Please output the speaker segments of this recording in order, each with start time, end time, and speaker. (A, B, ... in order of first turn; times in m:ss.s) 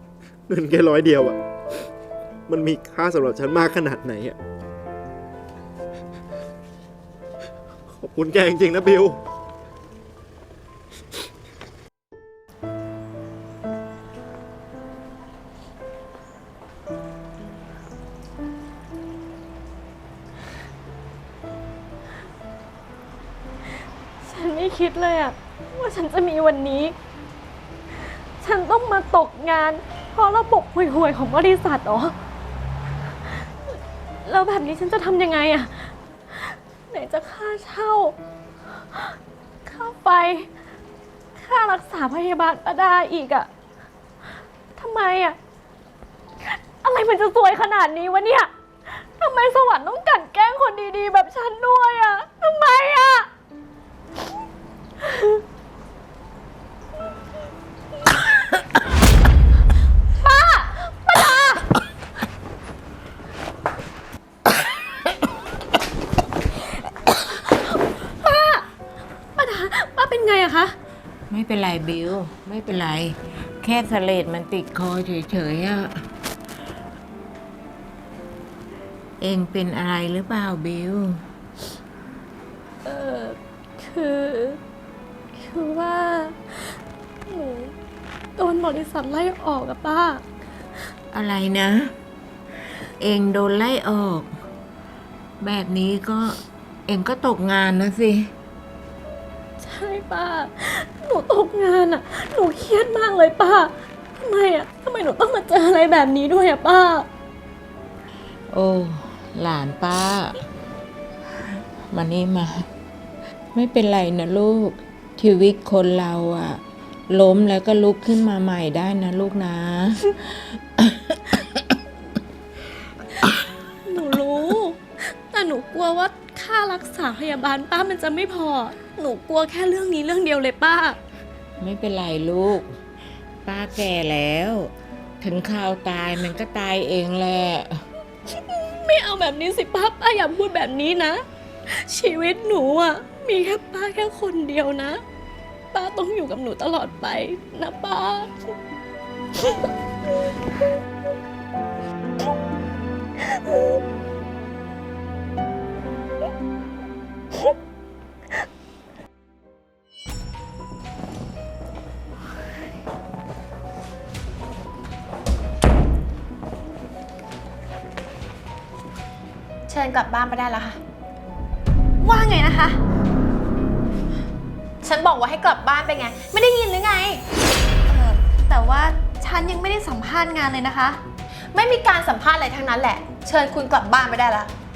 0:00.5-0:01.4 A
0:02.5-0:04.4 A
0:07.9-0:09.2 A
0:24.2-0:26.9 B
0:28.4-0:32.1 B
0:34.2-0:38.2 B
0:38.9-0:40.5 B
0:41.3-0:43.5 B
0:44.8-0:45.4 B
0:46.4-0:53.3 B
0:55.0-0:55.4 B
1:00.2-1:01.7 B
1:07.5-1:08.6 B
1:09.4-1:10.7 B
1:11.3-1:16.0 C
1:19.2-1:21.2 C
1:22.8-1:24.6 B
1:25.4-1:27.7 B
1:28.4-1:30.2 B
1:31.1-1:31.9 C
1:33.0-1:34.3 C
1:35.4-1:38.3 C
1:39.6-1:47.1 B
1:48.5-1:50.4 C
1:51.9-1:52.7 C
1:53.5-2:01.2 C
2:03.8-2:11.0 B
2:11.6-2:12.7 C
2:13.4-2:17.8 C
2:18.4-2:25.0 B
2:25.7-2:28.5 B
2:49.7-2:50.8 D
2:52.0-2:52.8 B
2:54.8-2:57.2 D
2:57.9-3:01.0 B
3:01.5-3:04.5 D